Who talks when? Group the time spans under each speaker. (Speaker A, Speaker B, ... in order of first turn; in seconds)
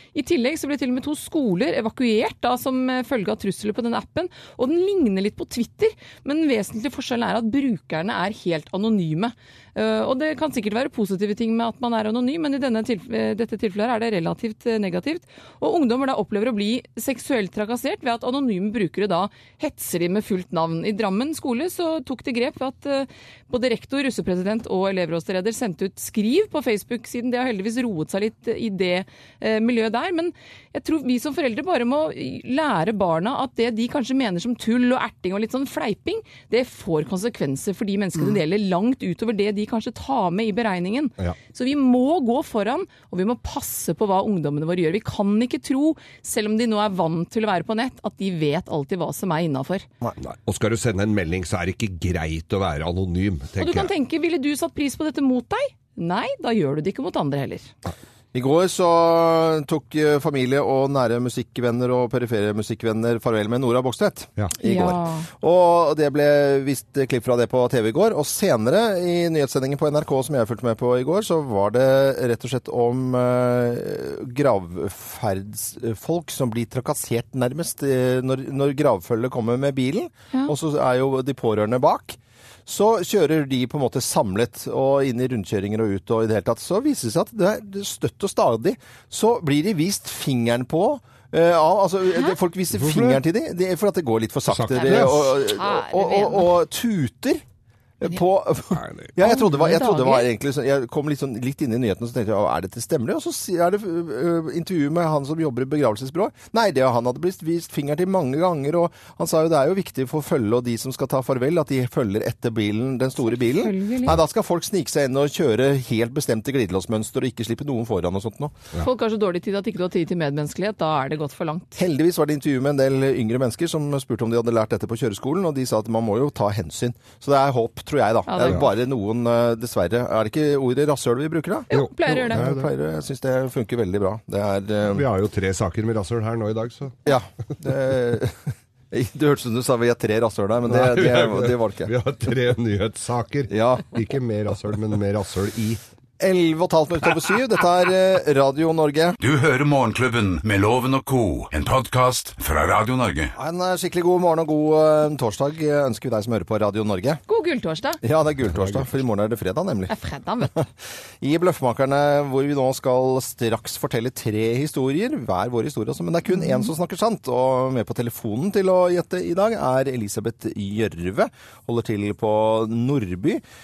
Speaker A: 0.1-49.9, 53.6-57.7, 64.6-65.3, 94.7-96.5, 99.2-100.3, 113.3-114.2, 118.8-121.8, 128.3-128.7, 131.7-132.4, 157.3-158.0, 159.9-160.5
Speaker B: 50.2-53.9, 92.7-93.2, 94.5-95.2, 98.7-99.1, 131.7-132.7, 134.9-137.0, 140.7-145.8, 158.5-158.9
Speaker C: 58.3-97.4, 98.0-118.6, 121.8-135.0, 137.0-141.9, 143.5-143.9, 146.2-149.2, 153.3-157.2, 158.0-159.9, 161.2-173.4
Speaker D: 149.2-153.3